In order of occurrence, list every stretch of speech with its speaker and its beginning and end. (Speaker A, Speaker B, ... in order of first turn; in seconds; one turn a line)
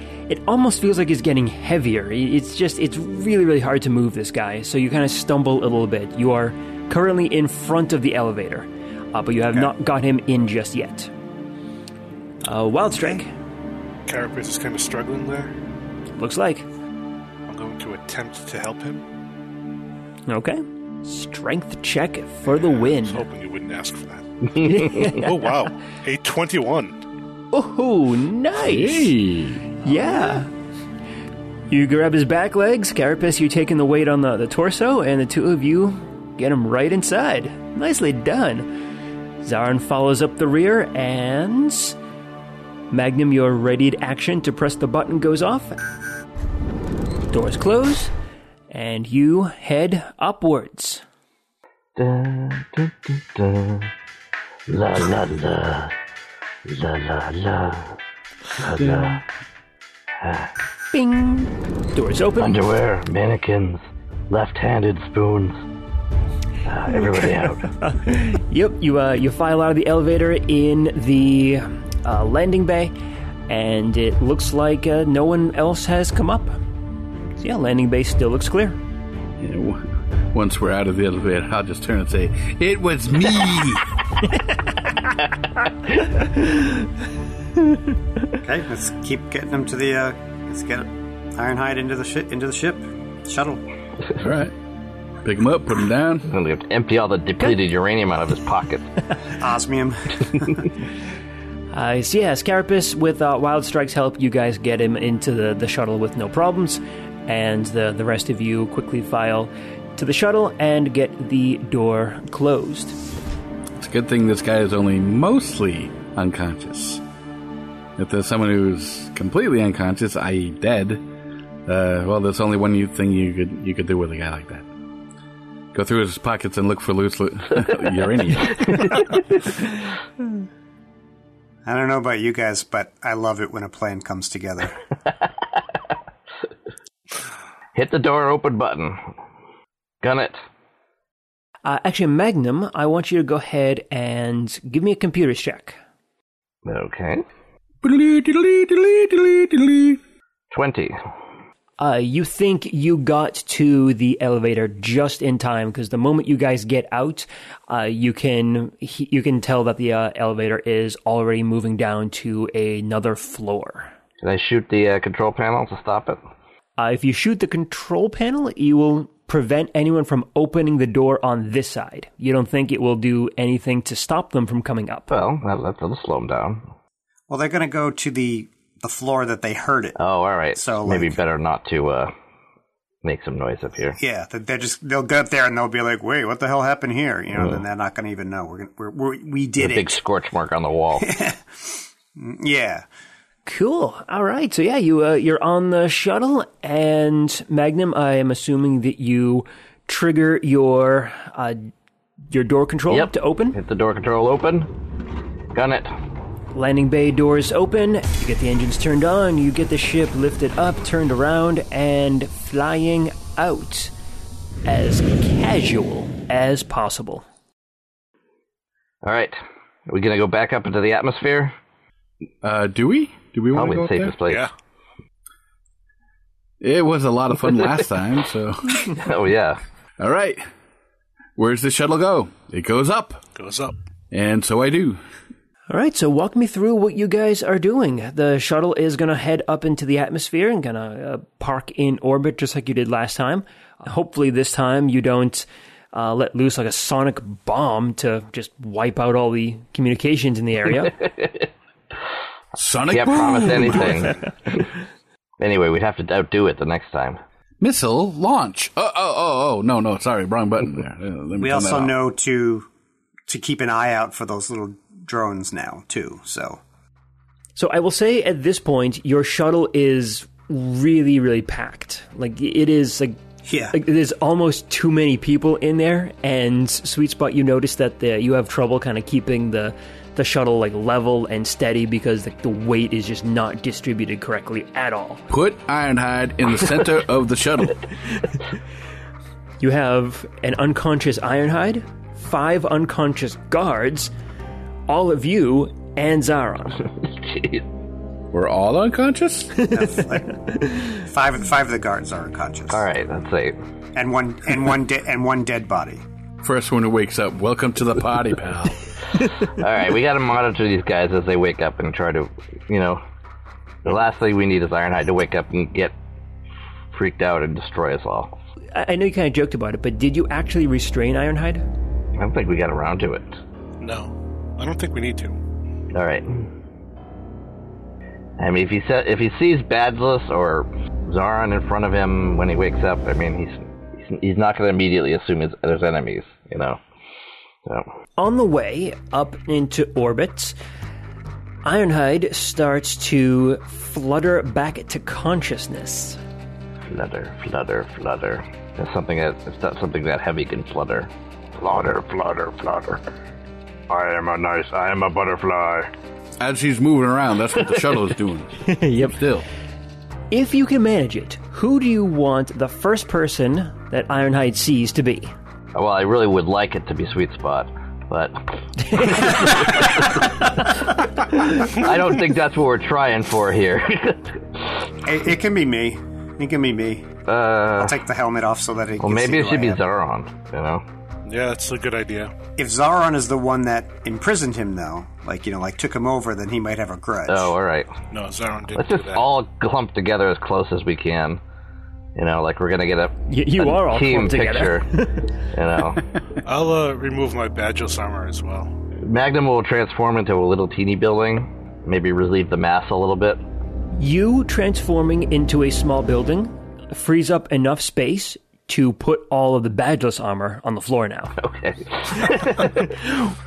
Speaker A: 0.3-11.1
Speaker A: 12.4-13.3
Speaker B: 14.1-15.6
Speaker A: 16.1-16.7
Speaker B: 17.5-19.0
Speaker A: 20.3-23.2
Speaker B: 22.6-27.0
Speaker A: 24.6-25.3
Speaker A: 27.5-29.1
Speaker C: 28.6-29.8
Speaker A: 29.8-30.5
Speaker A: 31.7-38.7
Speaker A: 39.4-42.0
Speaker A: 42.9-45.8
Speaker A: 47.3-48.1
Speaker A: 48.7-51.0
Speaker D: 52.0-53.9
Speaker D: 54.7-56.0
Speaker D: 56.6-58.0
Speaker D: 58.6-59.2
Speaker C: 58.8-59.2
Speaker D: 60.2-60.5
Speaker A: 60.9-62.6
Speaker D: 62.4-65.6
Speaker D: 66.7-67.7
Speaker A: 67.8-72.9
Speaker A: 73.5-76.6
Speaker A: 77.4-78.8
Speaker C: 79.4-83.9
Speaker A: 86.2-86.9
Speaker E: 88.4-93.6
Speaker C: 94.2-94.5
Speaker C: 95.2-96.3
Speaker D: 96.3-98.9
Speaker E: 99.4-100.7
Speaker A: 101.7-113.0
Speaker C: 113.8-117.0
Speaker C: 118.0-121.0
Speaker C: 121.7-124.7
Speaker C: 125.7-129.1
Speaker E: 131.7-134.8
Speaker D: 137.7-139.0
Speaker D: 140.0-140.4
Speaker A: 141.7-145.8
Speaker D: 146.7-147.2
Speaker C: 147.8-150.0
Speaker D: 150.5-151.0
Speaker A: 151.8-163.9
Speaker D: 164.2-166.2
Speaker A: 166.8-175.2
Speaker D: 175.1-176.7
Speaker E: 177.3-180.0
Speaker D: 180.0-182.1
Speaker E: 180.6-181.2
Speaker D: 183.0-184.0
Speaker E: 184.0-189.9
Speaker D: 187.3-187.6
Speaker D: 189.6-191.1
Speaker E: 191.0-192.8
Speaker A: 193.5-201.7
Speaker A: 202.3-203.6
Speaker D: 202.9-204.7
Speaker D: 205.5-205.9
Speaker A: 206.5-213.9
Speaker A: 214.7-217.2
Speaker D: 219.0-221.5
Speaker C: 222.4-224.1
Speaker D: 223.5-224.5
Speaker C: 226.6-228.8
Speaker D: 229.0-229.6
Speaker C: 230.0-230.4
Speaker C: 231.4-233.2
Speaker B: 233.4-233.8
Speaker C: 234.1-235.0
Speaker A: 235.7-251.0
Speaker D: 251.1-251.5
Speaker C: 252.6-254.1
Speaker D: 252.9-254.2
Speaker D: 255.4-257.2
Speaker C: 257.6-262.0
Speaker E: 261.4-262.7
Speaker E: 263.3-266.6
Speaker A: 267.6-273.2
Speaker E: 273.4-273.8
Speaker A: 273.7-285.2
Speaker C: 285.3-287.9
Speaker A: 289.6-294.1
Speaker A: 294.9-296.9
Speaker D: 297.0-297.7
Speaker C: 298.3-299.7
Speaker E: 299.7-300.4
Speaker A: 300.5-301.0
Speaker E: 301.0-302.8
Speaker D: 302.7-303.6
Speaker E: 303.9-306.1
Speaker C: 306.4-308.8
Speaker D: 309.5-313.0
Speaker D: 313.9-315.9
Speaker D: 316.9-318.3
Speaker A: 318.7-321.6
Speaker D: 322.2-323.4
Speaker B: 323.8-325.4
Speaker D: 325.9-326.5
Speaker D: 328.4-336.8
Speaker A: 338.2-340.6
Speaker A: 341.6-346.2
Speaker D: 346.9-353.0
Speaker D: 353.9-355.9
Speaker C: 356.4-359.5
Speaker A: 358.7-359.1
Speaker A: 360.3-365.3
Speaker D: 365.7-370.5
Speaker A: 368.9-369.2
Speaker D: 371.4-374.8
Speaker E: 375.1-377.1
Speaker D: 377.3-378.0
Speaker E: 377.8-379.8
Speaker D: 379.0-380.8
Speaker B: 381.2-382.3
Speaker E: 382.6-387.5
Speaker D: 387.3-387.9
Speaker B: 388.1-389.3
Speaker D: 388.7-391.4
Speaker D: 392.2-396.0
Speaker A: 393.3-395.3
Speaker B: 396.4-398.7
Speaker D: 399.0-403.4
Speaker A: 404.0-411.4
Speaker D: 411.4-412.9
Speaker A: 412.6-413.3